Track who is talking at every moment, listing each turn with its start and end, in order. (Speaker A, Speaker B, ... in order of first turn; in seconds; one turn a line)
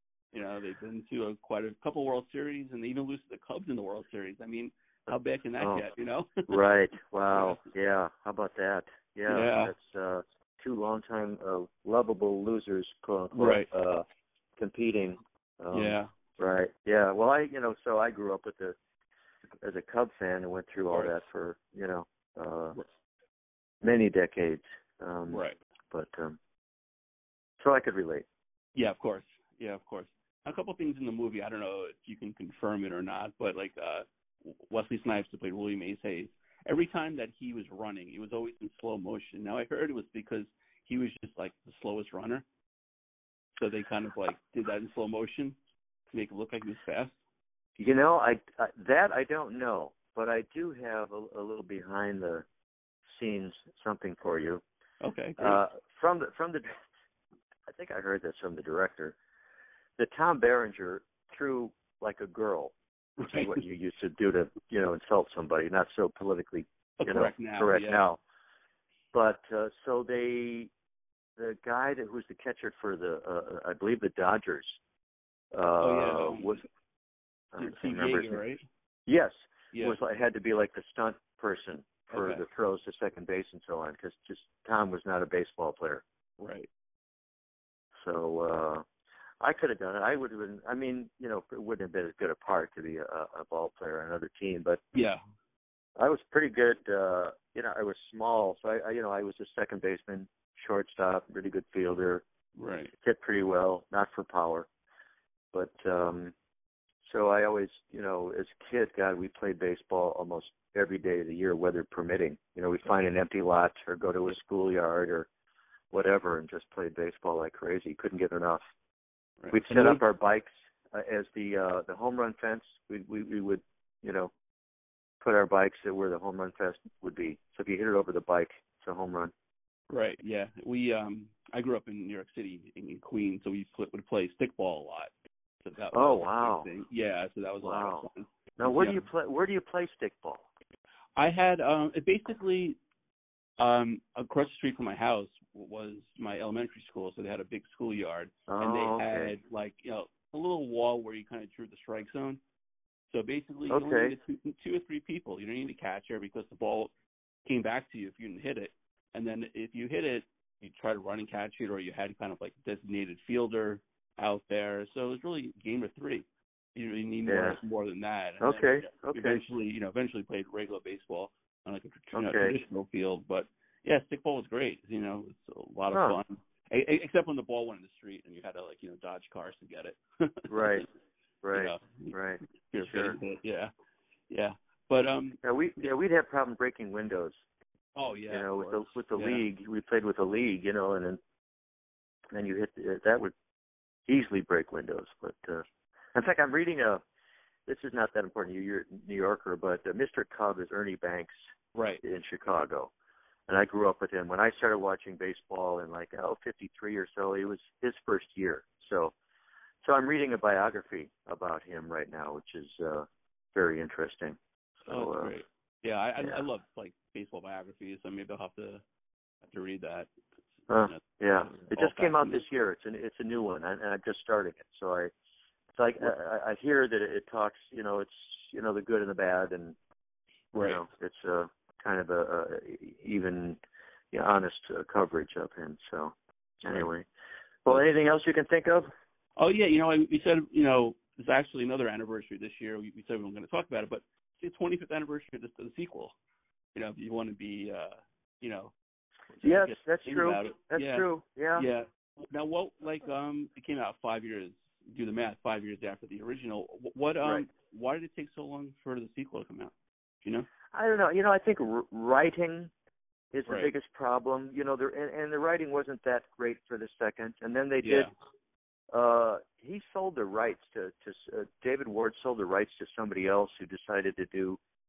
Speaker A: 0.3-6.6
Speaker B: 5.6-5.9
Speaker B: 6.5-14.1
Speaker A: 7.3-7.6
Speaker A: 9.3-9.7
Speaker A: 13.3-13.7
Speaker B: 14.6-18.8
Speaker A: 15.7-16.1
Speaker B: 19.6-22.8
Speaker B: 23.8-26.4
Speaker A: 25.3-25.6
Speaker B: 27.6-28.2
Speaker A: 28.8-42.4
Speaker A: 43.6-45.6
Speaker A: 46.1-47.2
Speaker B: 47.8-52.5
Speaker B: 53.1-54.6
Speaker A: 55.0-55.6
Speaker B: 55.4-56.8
Speaker B: 57.7-59.2
Speaker B: 60.0-62.7
Speaker A: 63.2-63.6
Speaker B: 63.2-68.2
Speaker A: 67.0-68.0
Speaker B: 69.1-70.7
Speaker B: 71.4-74.8
Speaker B: 75.5-76.7
Speaker A: 75.8-76.6
Speaker B: 77.5-78.4
Speaker A: 77.6-78.6
Speaker B: 79.1-86.0
Speaker A: 79.7-80.0
Speaker A: 82.1-82.4
Speaker A: 86.4-86.7
Speaker B: 88.0-88.8
Speaker B: 89.4-94.8
Speaker A: 94.9-95.2
Speaker B: 96.0-102.2
Speaker A: 102.5-102.9
Speaker B: 103.0-104.7
Speaker B: 105.5-106.3
Speaker B: 107.0-115.3
Speaker B: 115.9-118.6
Speaker A: 119.4-120.0
Speaker B: 119.5-124.3
Speaker B: 125.2-129.3
Speaker A: 129.9-139.1
Speaker B: 135.9-136.7
Speaker B: 137.6-138.1
Speaker B: 138.6-140.5
Speaker A: 141.2-142.8
Speaker A: 143.6-152.4
Speaker B: 148.5-149.3
Speaker A: 153.1-156.9
Speaker B: 153.7-154.2
Speaker A: 157.5-180.8
Speaker B: 167.3-167.6
Speaker B: 168.4-169.4
Speaker B: 172.1-172.6
Speaker B: 175.9-176.2
Speaker B: 180.5-180.9
Speaker B: 181.4-183.2
Speaker A: 181.5-182.1
Speaker A: 182.7-183.7
Speaker A: 184.3-185.4
Speaker B: 185.4-187.4
Speaker A: 187.9-189.4
Speaker B: 188.3-191.2
Speaker B: 192.3-193.3
Speaker B: 194.1-197.0
Speaker B: 197.7-201.3
Speaker A: 201.8-202.0
Speaker B: 202.0-202.9
Speaker B: 203.5-209.1
Speaker B: 209.8-215.3
Speaker A: 214.9-218.8
Speaker A: 219.4-220.1
Speaker B: 220.7-225.1
Speaker A: 220.9-222.4
Speaker B: 225.8-229.8
Speaker A: 230.5-230.8
Speaker B: 230.6-233.6
Speaker B: 234.1-237.1
Speaker B: 237.7-238.9
Speaker A: 239.4-246.2
Speaker A: 246.7-248.7
Speaker A: 249.3-259.7
Speaker B: 249.4-251.7
Speaker B: 260.7-262.7
Speaker B: 263.3-268.1
Speaker A: 267.8-268.1
Speaker B: 268.9-274.6